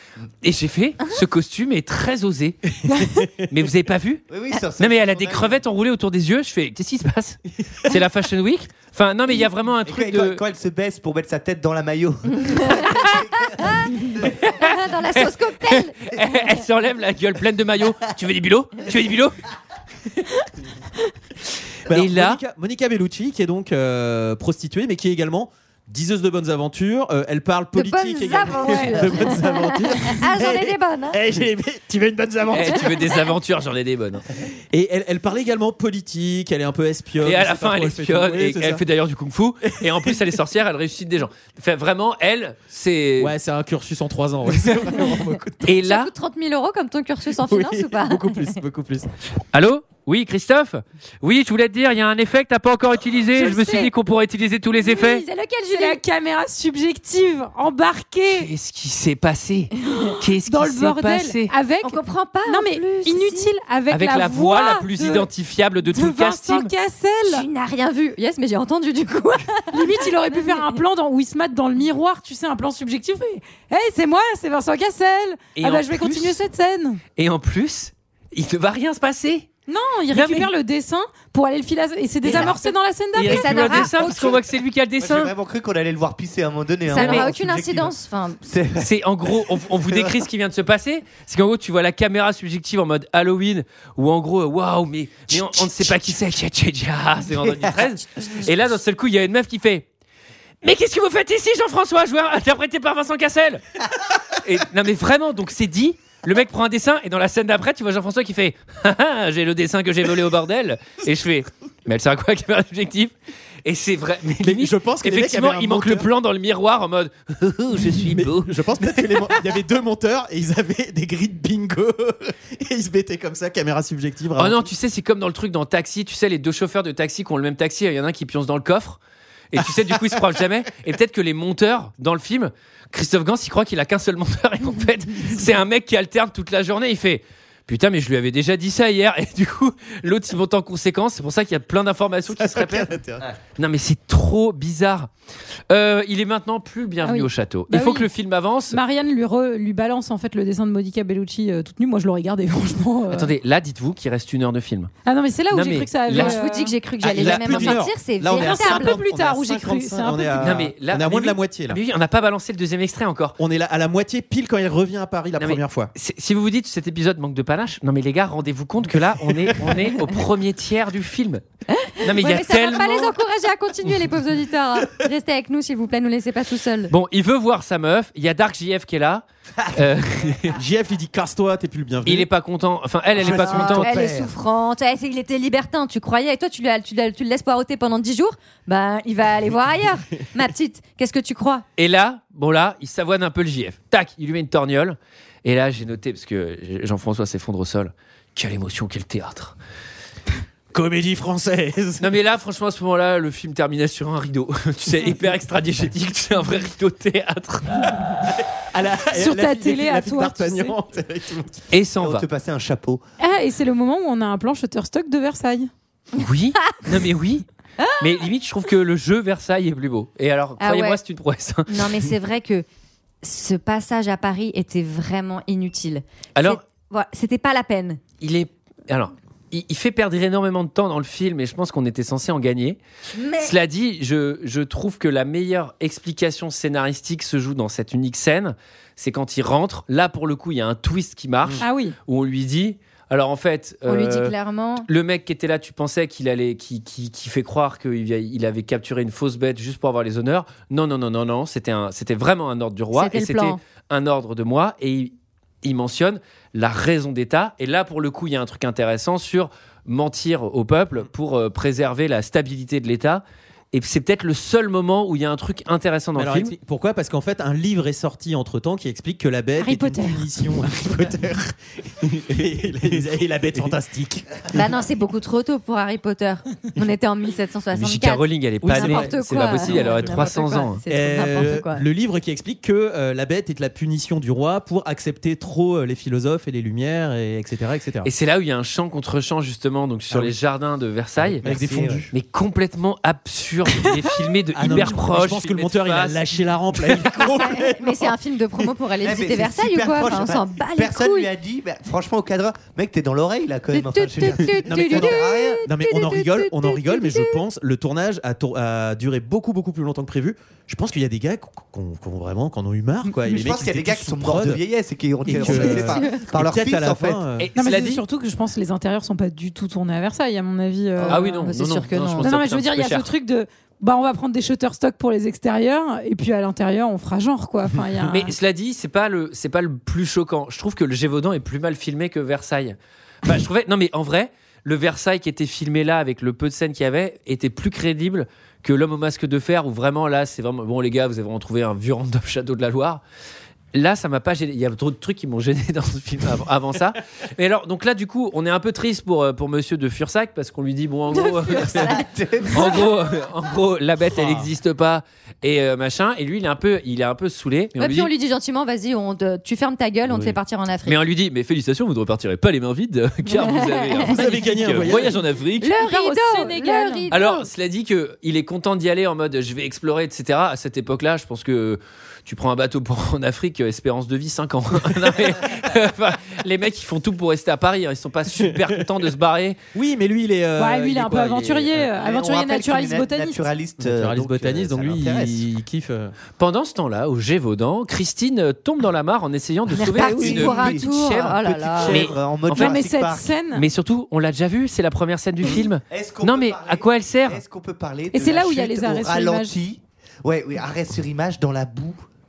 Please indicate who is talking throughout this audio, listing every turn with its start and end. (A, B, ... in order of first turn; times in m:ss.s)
0:00.4-0:02.6 A
0:02.8-0:03.3 B
0:03.5-0:04.2 A
0:04.3-0:05.6 C
0:04.8-0:10.4 A
0:09.8-0:14.2 C
0:12.4-0:14.1 D
0:14.2-0:19.4 A
0:14.6-0:16.0 D
0:21.9-0:22.4 A
0:21.9-0:33.1 B
0:27.7-0:31.2 D
0:32.5-0:34.2 A
0:34.7-0:38.8 B
0:37.2-0:43.3 A
0:39.8-0:40.2 B
0:43.2-0:45.6 B
0:45.6-0:46.1 A
0:45.8-0:48.6 D
0:47.4-0:49.1 B
0:49.5-0:55.2 A
0:53.4-0:53.9 E
0:54.8-0:56.0 D
0:55.7-0:58.5 E
0:58.3-1:01.5 A
1:00.0-1:05.3 E
1:01.8-1:03.5 D
1:03.9-1:06.7 A
1:05.9-1:07.5 E
1:07.3-1:10.7 D
1:09.7-1:17.0 E
1:15.6-1:16.4 A
1:17.2-1:19.5 A
1:19.7-1:24.4 E
1:20.1-1:20.5 A
1:22.2-1:22.7 D
1:23.1-1:25.3 A
1:23.2-1:24.3 D
1:25.0-1:30.2 C
1:26.9-1:28.4 D
1:26.9-1:27.3 A
1:28.8-1:39.9 A
1:35.3-1:36.1 C
1:37.4-1:37.8 C
1:40.6-1:43.6 A
1:44.4-1:53.1 A
1:53.6-1:59.3 A
1:54.4-1:56.1 B
1:57.9-2:04.7 B
2:04.4-2:09.0 A
2:09.5-2:23.0 A
2:22.4-2:23.3 C
2:23.6-2:25.1 A
2:25.7-2:28.8 A
2:27.0-2:28.1 E
2:28.7-2:33.3 E
2:33.1-2:34.9 A
2:35.0-2:36.8 E
2:35.5-2:36.4 A
2:36.1-2:39.0 D
2:37.0-2:41.8 B
2:37.4-2:37.6 E
2:38.3-2:40.6 E
2:40.4-2:43.4 A
2:43.4-2:45.9 B
2:45.4-2:51.4 A
2:49.2-2:50.0 B
2:51.7-2:56.9 D
2:52.0-2:53.2 A
2:56.9-3:00.6 A
3:00.5-3:02.3 B
3:02.0-3:03.9 A
3:03.2-3:04.3 C
3:03.2-3:03.9 B
3:03.8-3:11.6 D
3:11.8-3:19.6 A
3:20.7-3:22.1 B
3:22.0-3:27.9 A
3:28.3-3:31.6 B
3:29.1-3:30.8 E
3:31.7-3:32.3 A
3:32.0-3:33.0 C
3:33.2-3:35.7 E
3:36.1-3:37.4 A
3:38.0-3:42.0 A
3:40.6-3:41.0 D
3:41.7-3:42.7 D
3:43.2-3:48.0 D
3:48.2-3:52.8 A
3:53.2-3:53.5 D
3:53.4-4:26.5 A
4:01.6-4:02.0 E
4:03.9-4:04.9 D
4:12.9-4:13.6 D
4:26.2-4:34.3 B
4:29.6-4:30.3 E
4:34.5-4:41.8 D
4:37.7-4:40.8 A
4:38.6-4:40.2 B
4:40.9-4:48.1 B
4:48.0-4:51.5 A
4:50.1-4:50.4 B
4:51.2-4:52.1 C
4:51.4-4:52.1 B
4:52.1-4:57.3 A
4:54.5-4:58.1 B
4:57.3-5:01.3 D
4:59.0-5:05.6 C
5:03.7-5:07.4 D
5:04.4-5:14.6 B
5:13.2-5:17.3 C
5:15.2-5:17.5 B
5:15.4-5:16.2 D
5:17.4-5:18.0 A
5:17.6-5:21.4 E
5:21.0-5:22.3 D
5:21.0-5:23.1 A
5:22.2-5:28.3 E
5:28.1-5:43.0 A
5:43.7-5:51.9 A
5:51.1-5:52.9 D
5:51.7-5:52.9 C
5:52.5-5:58.1 A
5:54.1-5:54.5 B
5:57.8-6:01.0 D
6:00.9-6:05.7 A
6:03.3-6:04.1 D
6:04.1-6:05.2 B
6:05.6-6:07.5 D
6:05.8-6:07.1 E
6:07.1-6:19.6 A
6:18.3-6:18.7 B
6:19.7-6:21.9 B
6:20.6-6:23.4 E
6:22.0-6:25.5 C
6:23.8-6:26.1 B
6:26.4-6:32.8 A
6:29.8-6:32.0 D
6:29.8-6:33.3 C
6:32.5-6:33.7 E
6:33.5-6:37.4 A
6:35.5-6:42.0 C
6:38.1-6:39.6 E